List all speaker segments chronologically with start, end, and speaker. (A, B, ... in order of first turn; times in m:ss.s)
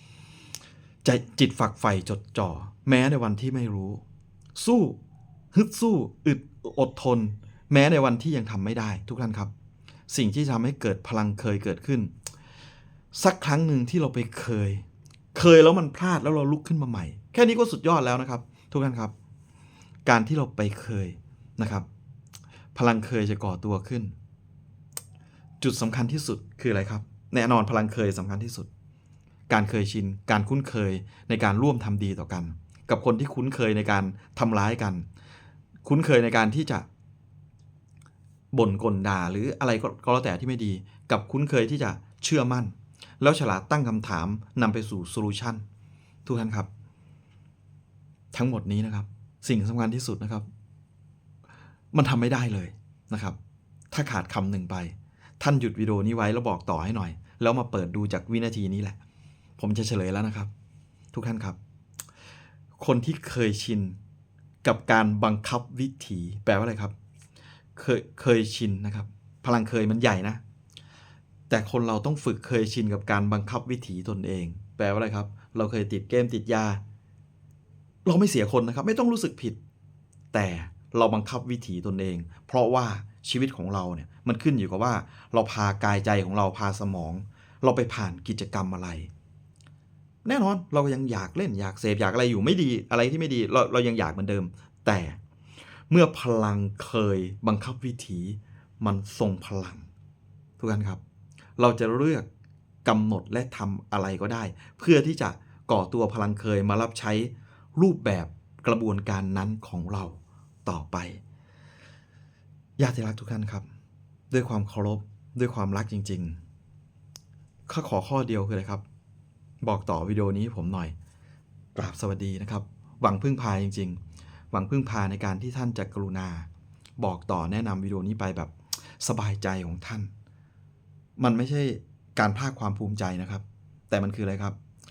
0:01.0-0:04.0 A
0:04.6-0:05.0 A
0:05.5-0:09.5 A
0:10.1-0:12.1 A
0:13.1-0:19.1 A
0:20.0-0:21.8 A
0:22.7-0:24.1 A
0:25.6-0:28.7 A
0:29.5-0:35.0 A
0:35.8-0:36.8 A
0:38.5-0:45.6 A
0:46.2-0:46.7 A
0:48.3-0:50.4 A
0:51.9-0:53.4 A
0:53.9-0:59.0 A
0:59.6-1:00.5 A
1:01.1-1:01.6 A
1:02.8-1:04.0 A
1:04.6-1:06.9 A
1:07.8-1:10.4 A
1:11.5-1:16.8 A
1:18.0-1:19.6 A
1:20.3-1:29.1 A
1:30.2-1:35.2 A
1:35.9-1:39.9 A
1:40.6-1:41.0 A
1:41.6-1:42.2 A
1:42.8-1:51.2 A
1:52.8-1:53.7 A
1:54.3-1:56.4 A
1:57.7-1:58.8 A
1:59.6-2:00.9 A
2:01.7-2:04.0 A
2:04.5-2:06.5 A
2:07.0-2:10.1 A
2:11.2-2:14.6 A